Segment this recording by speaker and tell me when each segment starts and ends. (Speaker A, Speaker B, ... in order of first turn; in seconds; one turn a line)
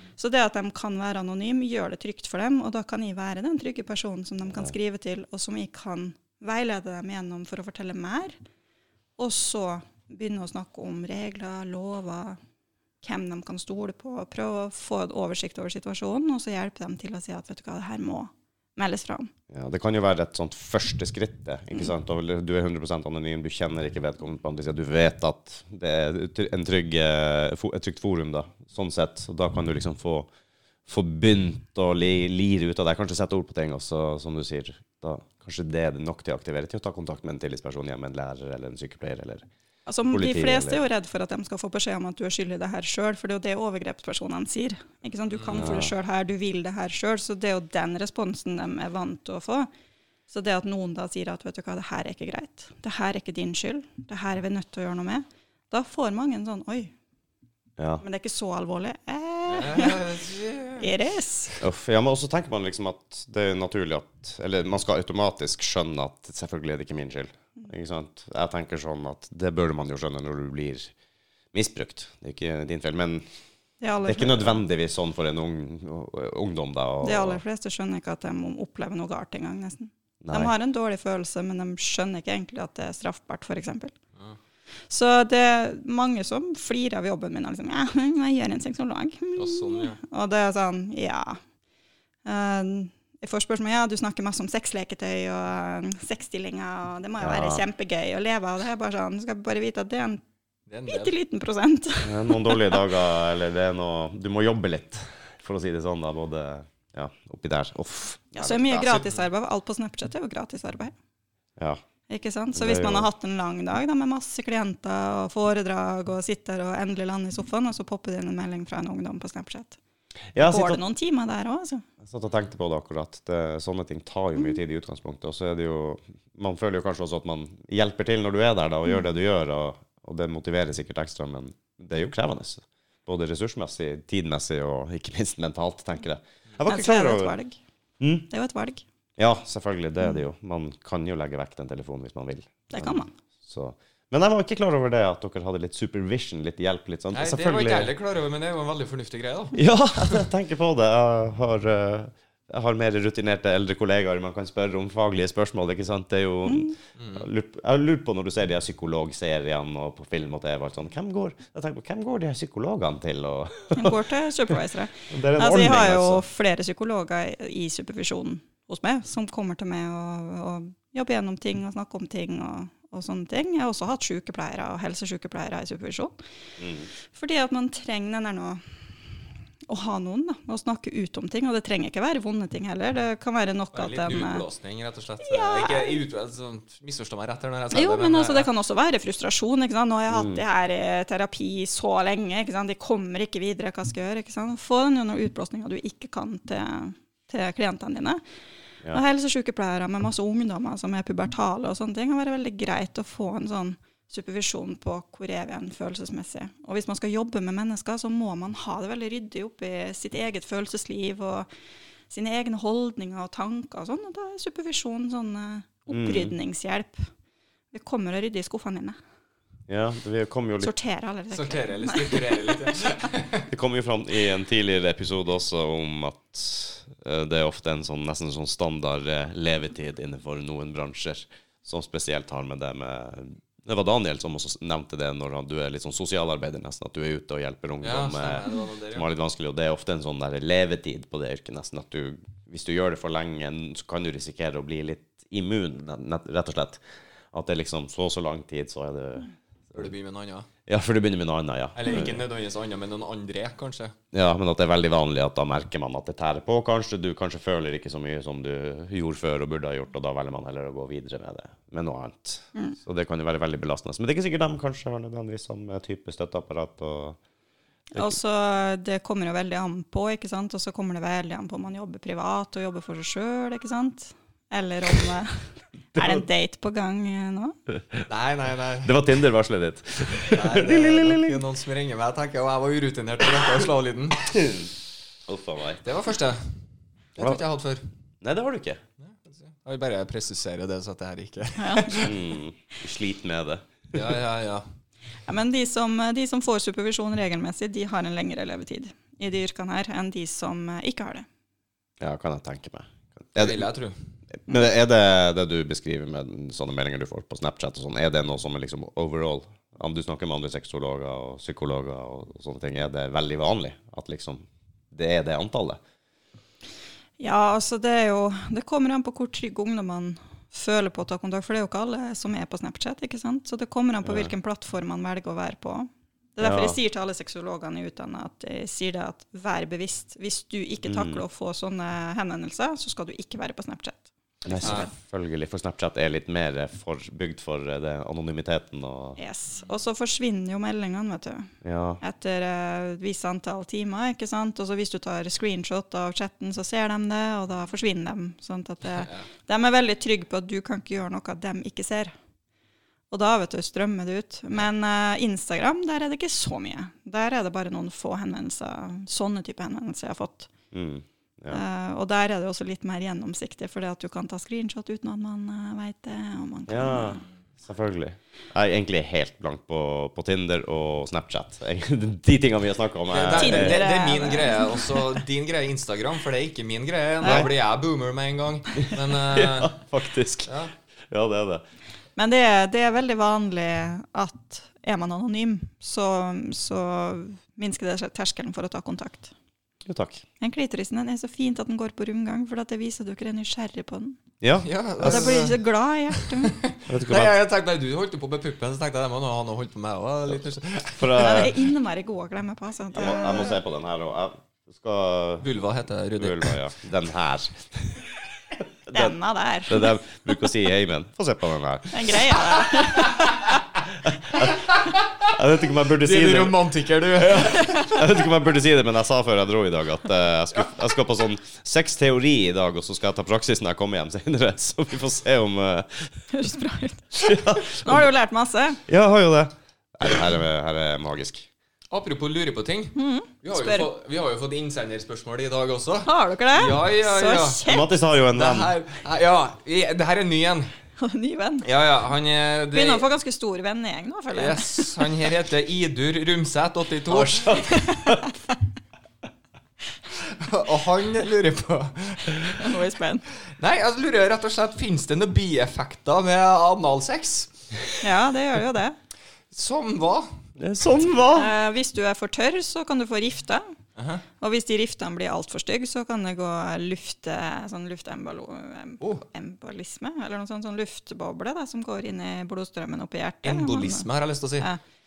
Speaker A: 0.2-8.4
Speaker A: 9.2-12.4
Speaker A: 13.0-19.3
Speaker B: 19.5-30.3
Speaker B: 30.9-39.5
Speaker A: 39.9-49.7
Speaker B: 40.1-40.8
Speaker B: 45.5-45.9
Speaker A: 50.3-56.9
Speaker A: 58.0-60.0
Speaker C: 59.5-60.9
Speaker A: 60.8-61.5
Speaker B: 61.6-70.9
Speaker B: 71.5-73.2
Speaker A: 73.8-74.6
Speaker B: 74.1-77.4
Speaker A: 77.0-84.0
Speaker B: 80.2-80.5
Speaker A: 84.9-91.4
Speaker C: 89.4-90.0
Speaker A: 92.3-100.2
Speaker B: 97.2-97.6
Speaker C: 100.7-101.1
Speaker A: 100.9-102.8
Speaker B: 102.0-109.0
Speaker A: 108.3-110.9
Speaker B: 111.6-111.8
Speaker A: 112.1-119.8
Speaker B: 112.5-113.1
Speaker B: 120.3-120.8
Speaker A: 120.4-121.9
Speaker B: 122.0-137.3
Speaker A: 136.7-137.6
Speaker B: 138.0-138.3
Speaker A: 138.3-138.8
Speaker B: 139.2-147.9
Speaker A: 142.7-143.1
Speaker C: 147.1-149.6
Speaker B: 149.6-164.0
Speaker A: 156.5-156.8
Speaker C: 157.0-157.3
Speaker A: 163.7-176.2
Speaker B: 165.1-166.2
Speaker B: 176.6-176.9
Speaker A: 177.1-178.6
Speaker A: 179.7-184.4
Speaker C: 183.8-188.5
Speaker A: 185.2-186.0
Speaker A: 187.7-198.2
Speaker B: 190.1-190.4
Speaker A: 198.9-211.5
Speaker A: 212.1-217.1
Speaker B: 215.9-216.3
Speaker A: 217.7-219.0
Speaker B: 219.7-220.7
Speaker A: 220.6-222.7
Speaker C: 221.3-223.5
Speaker B: 223.5-246.8
Speaker C: 237.8-239.1
Speaker B: 247.3-249.9
Speaker C: 249.8-250.5
Speaker B: 250.7-252.2
Speaker C: 251.8-253.9
Speaker B: 254.1-267.2
Speaker A: 267.9-277.6
Speaker B: 275.9-276.2
Speaker C: 278.1-279.0
Speaker B: 278.8-281.4
Speaker C: 280.2-284.4
Speaker B: 284.3-284.7
Speaker B: 285.3-285.8
Speaker C: 285.8-286.6
Speaker C: 287.2-287.9
Speaker B: 288.2-288.8
Speaker C: 289.0-292.2
Speaker A: 291.6-292.1
Speaker B: 292.0-294.0
Speaker C: 293.9-294.6
Speaker A: 295.3-301.3
Speaker B: 302.0-303.6
Speaker C: 303.4-304.0
Speaker B: 304.5-315.8
Speaker A: 317.2-334.9
Speaker B: 324.0-324.3
Speaker B: 326.4-326.8
Speaker B: 330.9-331.2
Speaker B: 334.5-339.2
Speaker C: 334.6-334.9
Speaker A: 339.2-352.1
Speaker B: 341.6-342.0
Speaker C: 349.0-349.2
Speaker A: 353.1-360.5
Speaker B: 360.7-361.6
Speaker A: 361.5-367.2
Speaker B: 366.7-373.8
Speaker C: 373.1-379.8
Speaker A: 373.3-375.2
Speaker A: 377.2-377.5
Speaker B: 377.2-377.5
Speaker B: 378.9-380.5
Speaker C: 380.5-380.7
Speaker B: 381.1-381.6
Speaker A: 382.2-389.3
Speaker B: 389.9-390.2
Speaker A: 390.4-394.2
Speaker B: 394.4-395.5
Speaker C: 394.6-395.6
Speaker A: 395.0-396.6
Speaker C: 396.2-401.4
Speaker B: 396.9-397.4
Speaker B: 401.0-401.6
Speaker A: 401.1-403.6
Speaker B: 403.0-405.4
Speaker C: 405.4-406.6
Speaker B: 406.2-409.1
Speaker A: 408.9-409.9
Speaker B: 409.7-412.3
Speaker A: 411.9-413.6
Speaker C: 414.4-415.3
Speaker B: 415.3-416.6
Speaker C: 416.0-418.1
Speaker B: 417.2-426.2
Speaker A: 426.3-428.8
Speaker B: 427.2-428.1
Speaker B: 428.9-431.5
Speaker C: 431.9-437.6
Speaker A: 433.0-433.9
Speaker A: 436.1-437.9
Speaker B: 437.6-438.7
Speaker C: 438.3-440.7
Speaker A: 441.0-441.7
Speaker C: 441.6-443.0
Speaker A: 442.7-445.1
Speaker C: 444.3-447.9
Speaker B: 447.1-448.3
Speaker C: 450.3-452.7
Speaker A: 452.5-453.2
Speaker C: 453.5-457.7
Speaker A: 458.0-459.0
Speaker C: 459.5-460.4
Speaker B: 460.6-461.5
Speaker A: 461.3-463.7
Speaker C: 464.0-464.2
Speaker A: 464.4-474.1
Speaker C: 473.4-474.7